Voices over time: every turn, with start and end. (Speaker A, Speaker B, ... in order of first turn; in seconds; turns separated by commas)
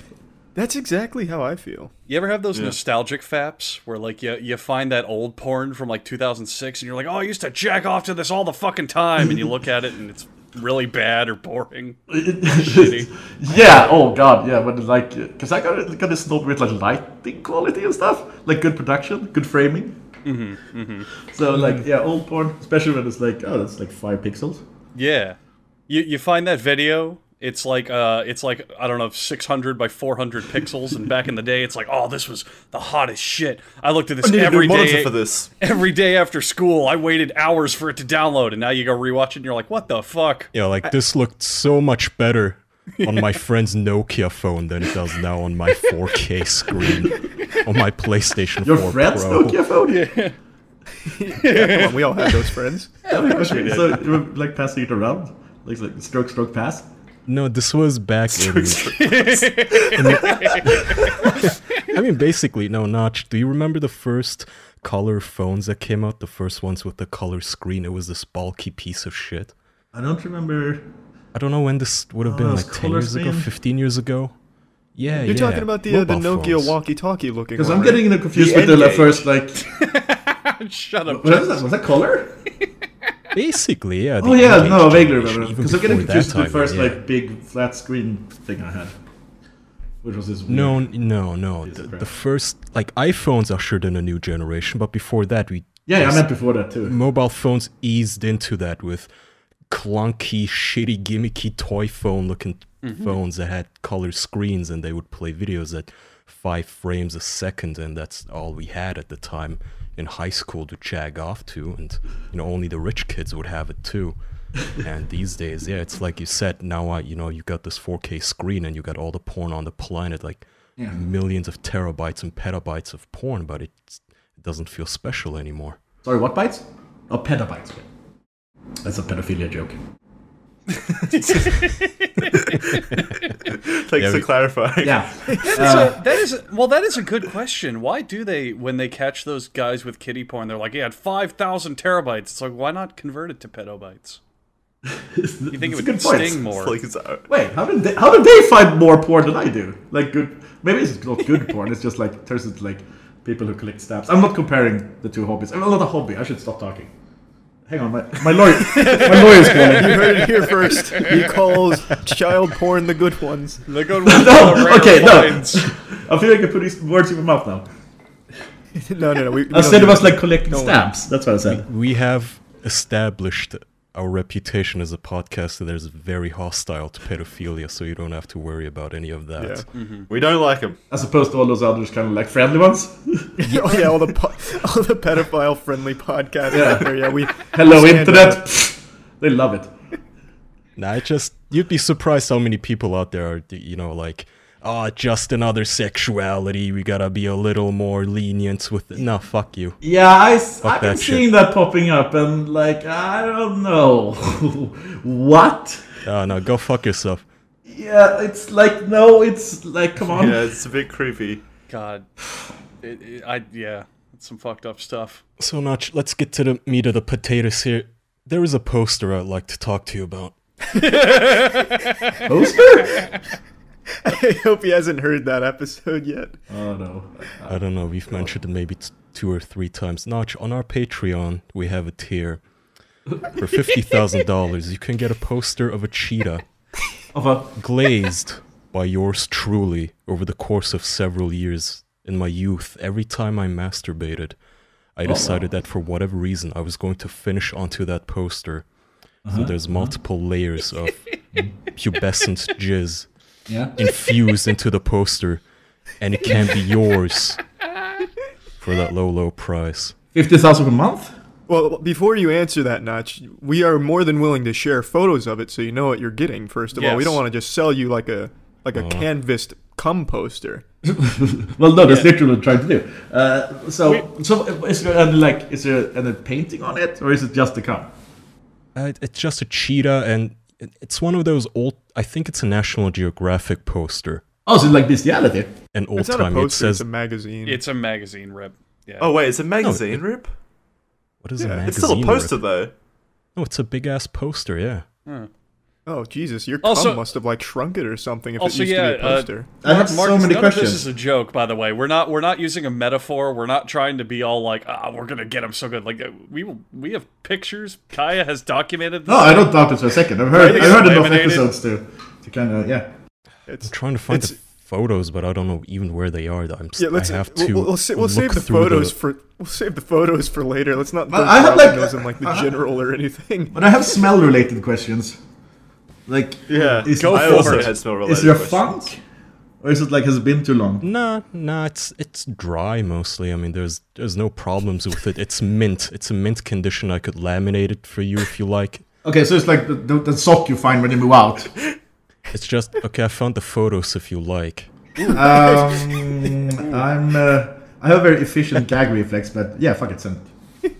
Speaker A: 0.6-1.9, Speaker B: 2.1-13.1, Speaker C: 12.1-20.0, Speaker B: 20.2-21.1, Speaker C: 21.2-24.6, Speaker A: 21.5-21.8, Speaker B: 24.9-25.4, Speaker B: 25.9-40.5, Speaker D: 34.2-35.5, Speaker E: 40.5-49.6, Speaker C: 48.6-50.1, Speaker B: 49.9-50.4, Speaker A: 51.1-53.0, Speaker B: 51.4-52.4, Speaker B: 53.1-54.0, Speaker C: 53.1-56.9, Speaker E: 57.3-59.4, Speaker D: 58.3-60.0, Speaker B: 59.0-61.1, Speaker E: 61.2-69.5, Speaker C: 69.9-70.8, Speaker E: 71.3-74.4, Speaker C: 72.2-73.5, Speaker E: 75.0-76.8, Speaker A: 75.1-78.0, Speaker C: 77.5-79.6, Speaker D: 78.3-79.2, Speaker B: 79.6-81.6, Speaker C: 81.1-82.3, Speaker E: 83.3-87.0, Speaker C: 84.2-88.9, Speaker C: 90.0-90.9, Speaker E: 90.5-96.3, Speaker C: 91.6-92.1, Speaker C: 95.9-97.0, Speaker E: 96.8-99.1, Speaker E: 99.7-125.8, Speaker B: 102.8-103.2, Speaker C: 126.0-127.9, Speaker C: 128.8-129.8, Speaker B: 131.1-133.3, Speaker D: 133.5-135.1, Speaker E: 133.9-134.3, Speaker C: 134.8-136.0, Speaker B: 135.4-144.2, Speaker C: 144.8-146.4, Speaker B: 145.5-146.8, Speaker D: 146.4-147.2, Speaker C: 147.3-156.9, Speaker C: 157.7-160.3, Speaker B: 158.7-161.2, Speaker A: 158.8-163.7, Speaker B: 163.7-165.7, Speaker C: 164.0-167.7, Speaker A: 168.8-170.8, Speaker C: 169.5-171.7, Speaker E: 171.5-179.7, Speaker A: 179.4-179.7, Speaker B: 179.7-180.1, Speaker D: 180.1-180.8, Speaker C: 180.9-183.4, Speaker A: 183.4-188.4, Speaker E: 183.5-183.8, Speaker C: 186.5-189.7, Speaker E: 190.8-199.8, Speaker C: 199.8-206.0, Speaker E: 200.6-201.3, Speaker E: 206.0-207.3, Speaker C: 207.7-210.4, Speaker D: 210.1-211.4, Speaker B: 211.7-212.1, Speaker B: 212.8-215.2, Speaker E: 215.4-220.3, Speaker B: 220.8-222.2, Speaker C: 222.3-223.1, Speaker A: 224.0-226.4, Speaker C: 226.5-227.6, Speaker E: 227.5-232.4, Speaker E: 233.2-236.5, Speaker C: 237.1-237.6, Speaker E: 237.6-244.4, Speaker E: 244.9-248.7, Speaker C: 245.0-245.5, Speaker E: 249.2-253.1, Speaker C: 249.2-250.0, Speaker C: 253.5-253.8, Speaker E: 253.8-255.4, Speaker E: 256.0-257.4, Speaker E: 258.6-260.0, Speaker C: 260.1-261.2, Speaker A: 261.5-270.6, Speaker B: 266.7-267.2, Speaker E: 268.7-269.1, Speaker C: 270.8-277.9, Speaker B: 271.9-272.1, Speaker E: 278.8-284.2, Speaker C: 284.5-285.5, Speaker E: 285.7-286.9, Speaker A: 286.0-287.6, Speaker B: 287.5-289.1, Speaker D: 289.0-290.3, Speaker E: 289.6-290.0, Speaker E: 291.2-292.5, Speaker D: 291.6-292.7, Speaker E: 293.4-294.9, Speaker A: 295.9-299.5, Speaker B: 296.6-297.1, Speaker B: 298.4-309.6, Speaker C: 299.6-300.9, Speaker C: 309.1-312.9, Speaker B: 310.3-311.5, Speaker A: 310.3-310.9, Speaker A: 313.5-314.4, Speaker E: 313.6-319.0, Speaker A: 316.8-323.7, Speaker C: 321.1-322.5, Speaker C: 323.5-325.2, Speaker C: 326.1-329.0, Speaker D: 326.5-328.8, Speaker B: 326.9-327.7, Speaker C: 329.6-330.9, Speaker E: 330.8-338.9, Speaker C: 339.0-341.7, Speaker E: 342.3-344.9, Speaker B: 345.0-345.6, Speaker A: 345.1-345.7, Speaker C: 345.1-350.3, Speaker B: 346.6-346.8